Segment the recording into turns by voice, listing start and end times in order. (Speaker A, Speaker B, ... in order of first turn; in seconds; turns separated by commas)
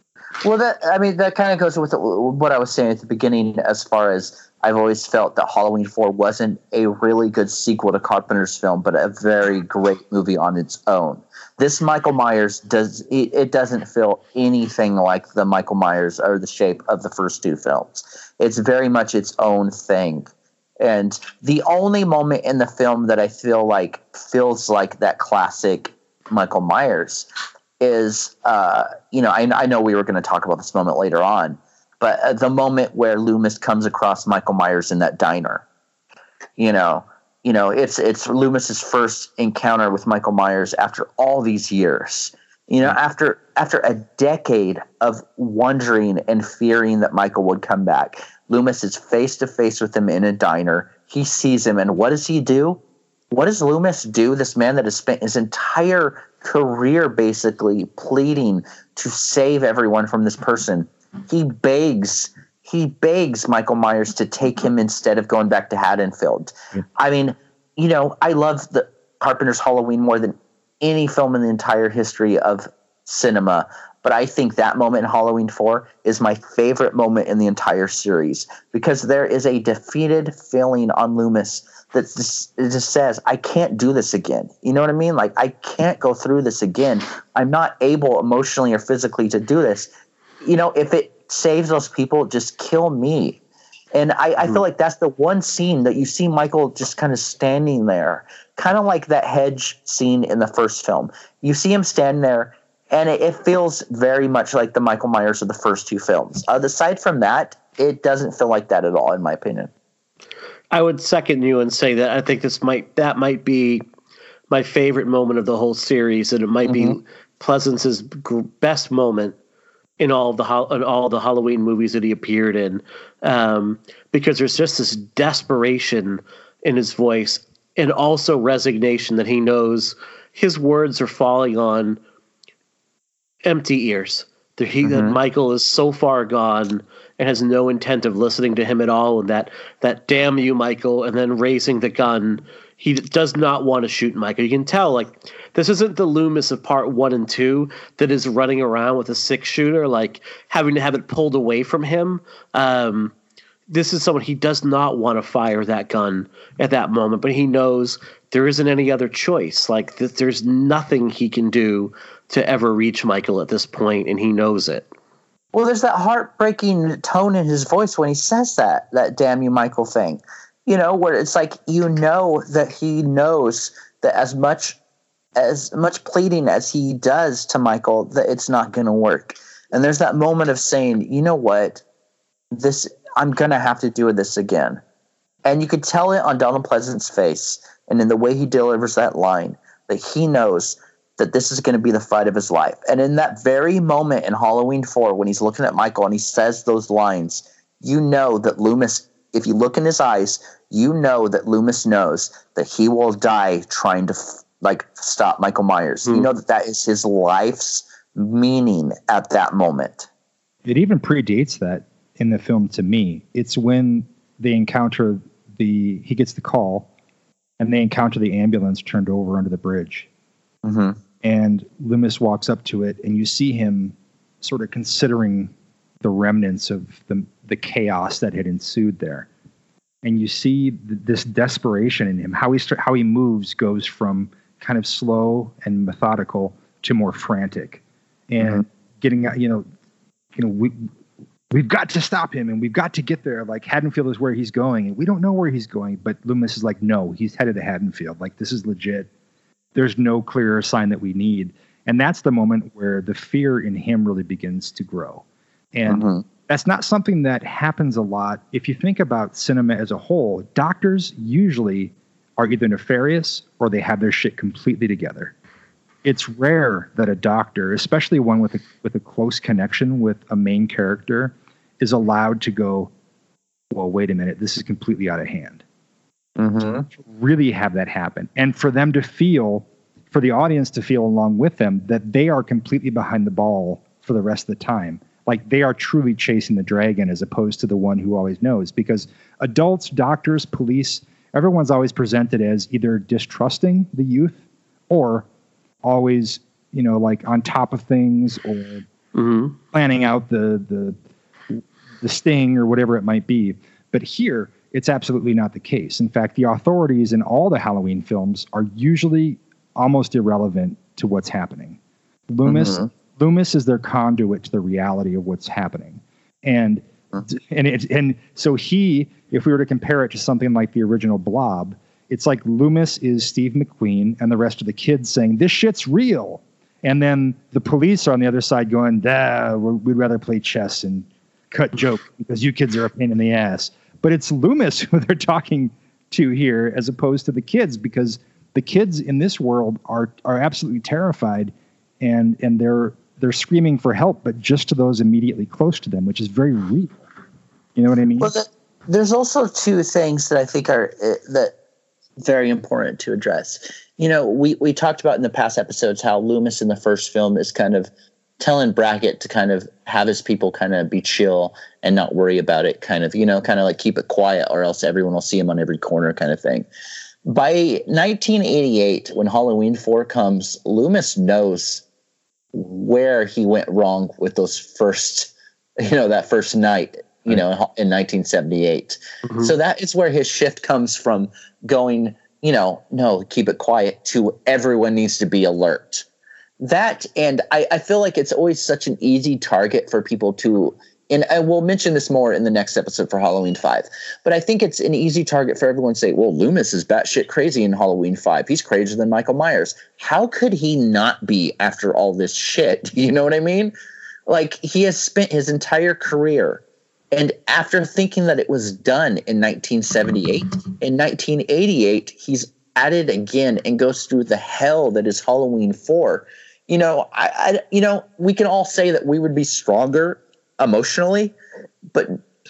Speaker A: 0.4-20.3, Speaker A: 20.8-27.3, Speaker A: 27.8-35.6, Speaker A: 36.6-52.8, Speaker A: 53.3-89.9, Speaker A: 90.4-93.4, Speaker A: 93.9-109.7, Speaker B: 110.7-113.8, Speaker B: 114.5-119.4, Speaker A: 116.7-117.0, Speaker B: 120.0-132.0, Speaker B: 133.4-153.1, Speaker A: 134.8-135.2, Speaker B: 153.7-164.9, Speaker A: 165.5-174.8, Speaker A: 175.4-181.8, Speaker A: 182.5-184.8, Speaker A: 185.4-210.1, Speaker C: 210.7-216.9, Speaker C: 217.6-220.1, Speaker A: 220.6-221.0, Speaker C: 221.2-229.3, Speaker C: 230.0-239.7, Speaker C: 240.4-240.9, Speaker C: 241.5-249.1, Speaker C: 249.8-265.3, Speaker A: 255.9-256.2, Speaker C: 266.0-272.9, Speaker C: 273.7-275.6, Speaker A: 276.4-276.9, Speaker C: 276.9-294.4, Speaker C: 294.9-295.3, Speaker C: 295.8-298.9, Speaker B: 299.1-299.6, Speaker C: 299.7-301.0, Speaker C: 301.5-347.0, Speaker A: 312.4-312.9, Speaker C: 347.8-348.3, Speaker A: 348.2-351.5, Speaker A: 352.2-366.7, Speaker A: 367.3-371.8, Speaker A: 372.5-386.1, Speaker A: 386.6-403.7, Speaker A: 404.3-421.4, Speaker A: 421.9-422.2